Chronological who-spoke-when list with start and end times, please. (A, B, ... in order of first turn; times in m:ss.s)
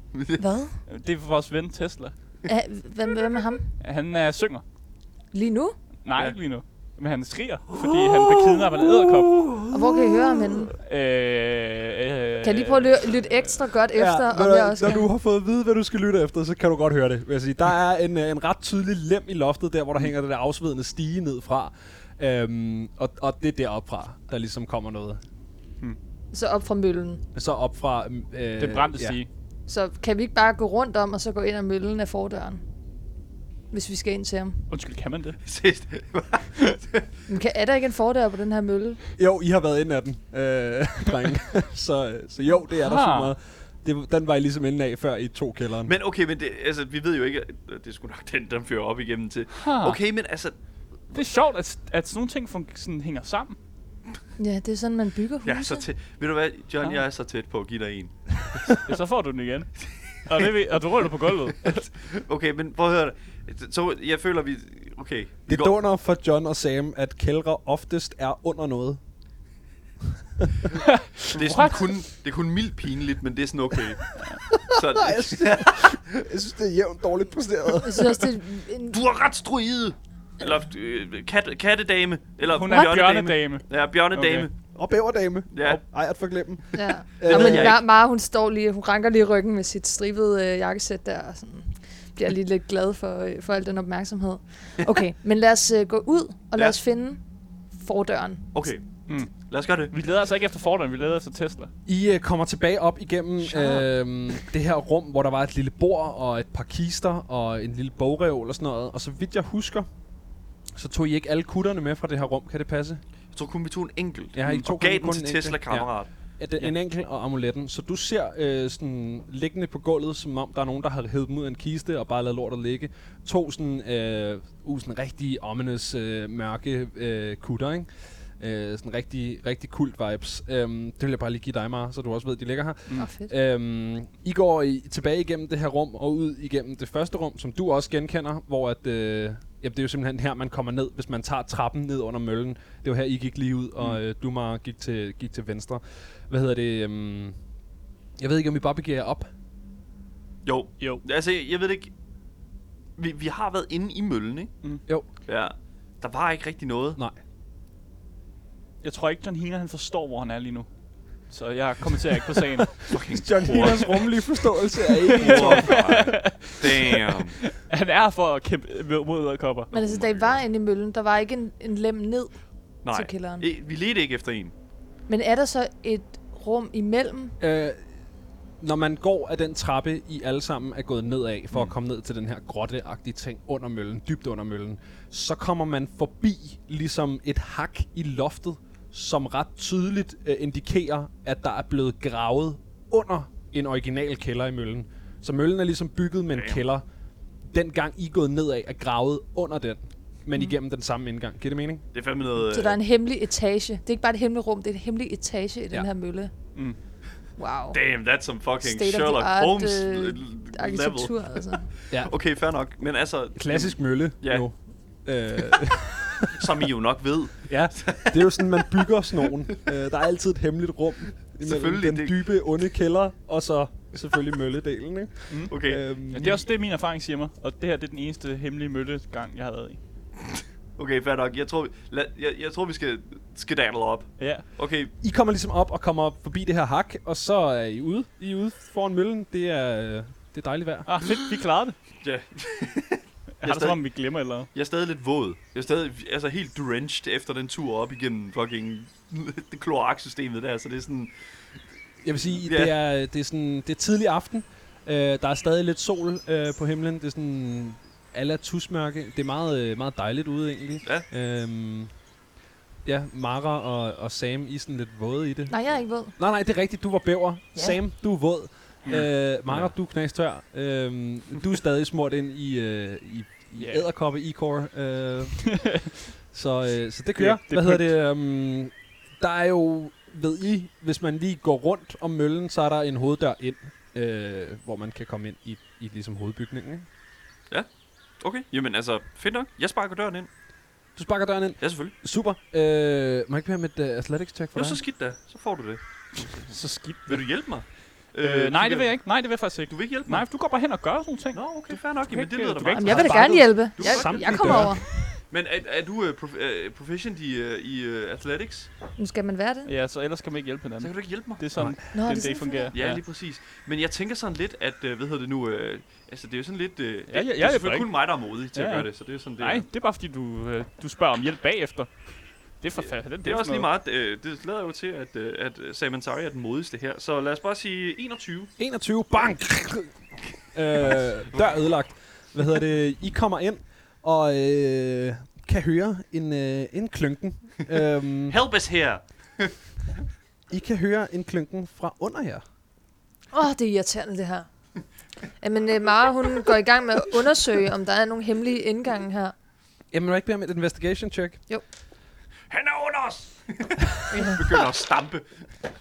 0:00.1-0:00.4 A
0:00.4-0:00.8 B
0:00.9-0:02.1 C
0:02.4-0:03.8 B
0:03.8-0:04.6 C
0:05.3-0:05.8 B
0:06.0-0:09.5 C
0:09.7-0:10.8 B
0:10.8-0:13.5 C
0:12.4-0:15.1 B
0:14.0-0:25.2 D
0:26.3-0:27.2 B
0:27.4-0:29.2 D
0:28.6-0:29.3 C
0:29.7-0:32.6 B
0:33.7-0:34.6 B
0:34.7-0:35.4 C
0:35.4-0:37.1 A
0:37.3-0:39.0 B
0:39.2-0:45.9 D
0:42.8-0:43.3 C
0:45.8-0:50.6 A
0:49.5-0:50.0 C
0:51.1-0:53.6 C
0:54.4-0:55.8 B
0:55.4-0:58.7 A
0:58.7-1:01.8 C
1:01.6-1:05.7 A
1:05.5-1:09.0 D
1:10.8-1:11.9 C
1:11.3-1:14.1 A
1:14.5-1:18.2 D
1:14.6-1:16.0 A
1:17.8-1:19.0 B
1:18.9-1:24.5 A
1:22.5-1:24.5 C
1:22.7-1:23.0 B
1:24.7-1:27.8 D
1:25.5-1:25.8 A
1:26.7-1:38.7 B
1:27.2-1:27.8 A
1:38.5-1:39.9 A
1:39.1-1:41.7 C
1:41.9-1:49.9 D
1:50.8-1:53.0 D
1:53.3-1:56.1 A
1:54.4-2:27.4 D
2:13.0-2:13.3 B
2:28.2-2:29.3 D
2:30.4-2:31.9 A
2:33.0-2:34.5 A
2:35.2-2:37.0 A
2:38.8-2:40.7 C
2:41.3-2:42.9 C
2:42.7-2:46.0 D
2:42.9-2:44.1 A
2:45.0-2:49.7 C
2:45.2-2:47.4 A
2:49.7-2:50.4 A
2:49.7-2:53.5 B
2:52.8-2:54.5 A
2:55.1-2:57.4 B
2:57.4-2:57.8 D
2:58.6-3:16.8 D
3:16.3-3:16.6 A
3:17.5-3:21.9 D
3:21.9-3:22.8 A
3:22.5-3:26.3 B
3:27.4-3:27.8 B
3:27.7-3:31.2 A
3:28.6-3:31.7 B
3:31.9-3:34.5 A
3:33.4-3:36.4 D
3:36.3-3:38.7 A
3:37.5-3:46.4 D
3:41.4-3:42.2 A
3:45.3-3:45.6 C
3:45.5-3:46.4 A
3:46.1-3:49.8 C
3:50.8-3:54.9 A
3:54.2-3:54.5 C
3:55.0-4:00.9 D
4:00.9-4:01.8 C
4:02.0-4:03.8 A
4:03.4-4:04.5 C
4:04.5-4:11.1 A
4:12.0-4:21.9 D
4:12.4-4:12.7 A
4:22.8-4:35.8 D
4:25.5-4:26.1 B
4:28.9-4:29.7 C
4:33.6-4:33.9 C
4:35.5-4:35.9 C
4:36.3-4:46.9 D
4:37.2-4:37.9 C
4:48.2-4:50.3 A
4:51.0-4:54.8 D
4:51.6-4:51.9 A
4:54.6-4:59.0 A
4:56.1-4:57.5 C
4:58.2-5:03.4 C
4:59.7-5:00.2 A
5:01.3-5:04.7 A
5:02.8-5:04.9 B
5:02.9-5:04.9 D
5:05.3-5:08.7 A
5:09.0-5:09.7 B
5:09.6-5:13.0 C
5:10.8-5:11.4 A
5:11.9-5:12.7 B
5:12.7-5:19.6 A
5:17.1-5:23.7 C
5:23.2-5:28.5 A
5:28.6-5:30.0 D
5:30.5-5:38.4 D
5:30.8-5:31.5 A
5:38.3-5:39.5 A
5:40.5-5:42.4 D
5:43.3-5:44.5 B
5:45.4-5:49.4 B
5:49.9-5:51.4 D
5:52.5-5:55.4 A
5:54.1-5:54.5 B